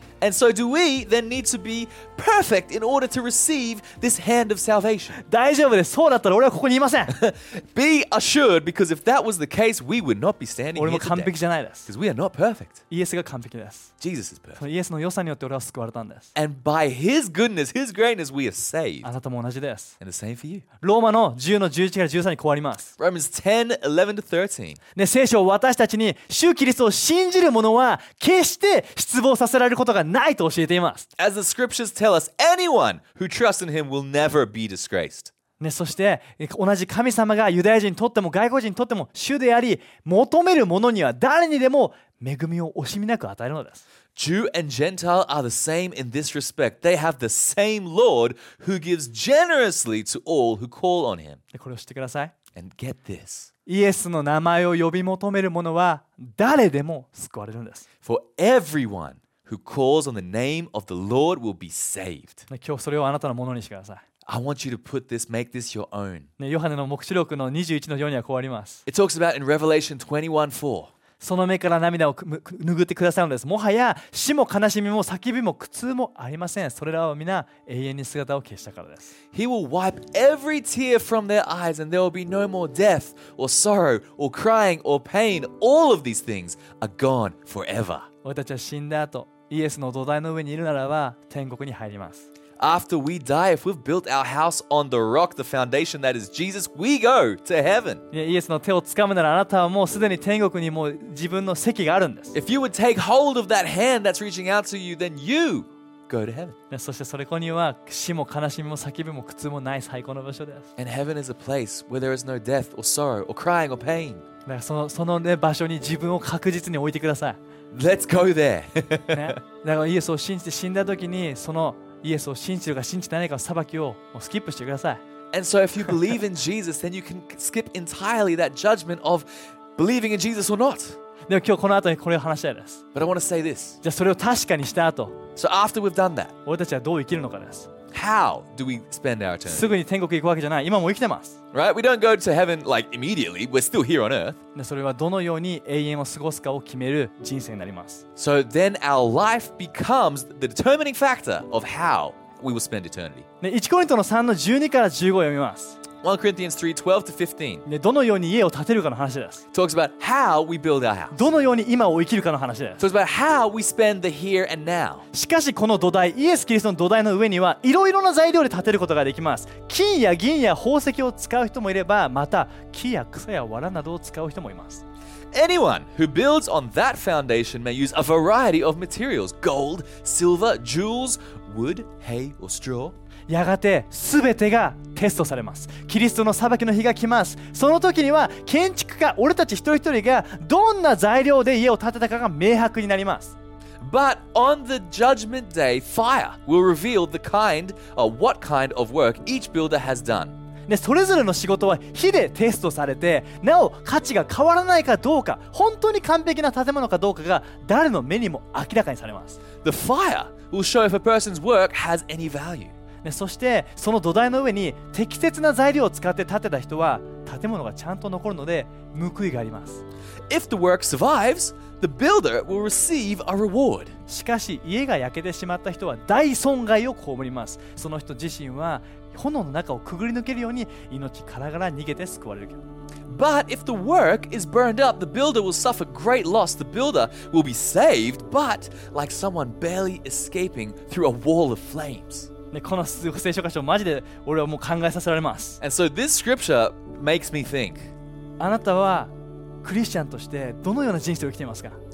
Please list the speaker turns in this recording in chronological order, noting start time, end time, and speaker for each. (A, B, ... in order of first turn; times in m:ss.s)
0:00.2-0:05.2 A
0:05.2-0:07.2 B
0:07.1-0:11.4 A
0:10.8-0:11.9 B
0:11.9-0:12.8 A
0:12.9-0:13.9 B
0:14.0-0:14.6 A
0:14.6-0:16.3 B
0:16.4-0:19.1 A
0:19.0-0:20.0 B
0:20.0-0:20.6 A
0:20.8-0:22.9 B
0:23.0-0:24.8 A
0:25.0-0:31.1 B
0:31.2-0:35.3 A
0:35.6-0:43.8 B
0:44.2-0:51.4 A
0:51.5-0:52.3 B
0:52.5-0:53.5 A
0:53.6-0:57.8 B
0:58.0-1:02.4 A
1:02.5-1:04.0 B
1:04.2-1:06.3 A
1:06.4-1:08.8 B
1:08.8-1:10.9 A
1:11.2-1:19.1 B
1:19.3-1:28.1 A
1:28.2-1:32.3 B
1:32.6-1:38.0 A
1:38.1-1:42.4 B
1:42.3-1:46.6 A
1:46.7-1:50.7 B
1:50.8-1:54.2 A
1:54.4-1:57.4 B
1:57.7-1:59.4 A
1:59.1-2:05.0 B
2:05.3-2:11.0 A
2:11.3-2:12.8 B
2:12.9-2:13.8 A
2:13.8-2:15.2 B
2:15.4-2:16.3 A
2:16.4-2:17.7 B
2:17.9-2:19.7 A
2:19.5-2:21.4 B
2:21.5-2:24.4 A
2:24.5-2:28.0 B
2:28.2-2:33.2 A
2:33.4-2:35.8 B
2:36.0-2:37.6 A
2:37.6-2:39.4 B
2:39.5-2:41.2 A
2:41.1-2:42.8 B
2:42.8-2:45.0 A
2:45.1-2:54.8 B
2:55.3-3:02.9 A
3:03.3-3:13.3 B
3:13.8-3:20.4 A
3:20.7-3:29.4 B
3:29.6-3:32.7 A
3:33.0-3:39.8 B
3:40.3-3:44.0 A
3:44.1-3:52.6 B
3:53.1-4:02.3 A
4:02.5-4:05.6 B
4:05.6-4:07.9 A
4:08.4-4:09.1 B
4:09.6-4:11.8 B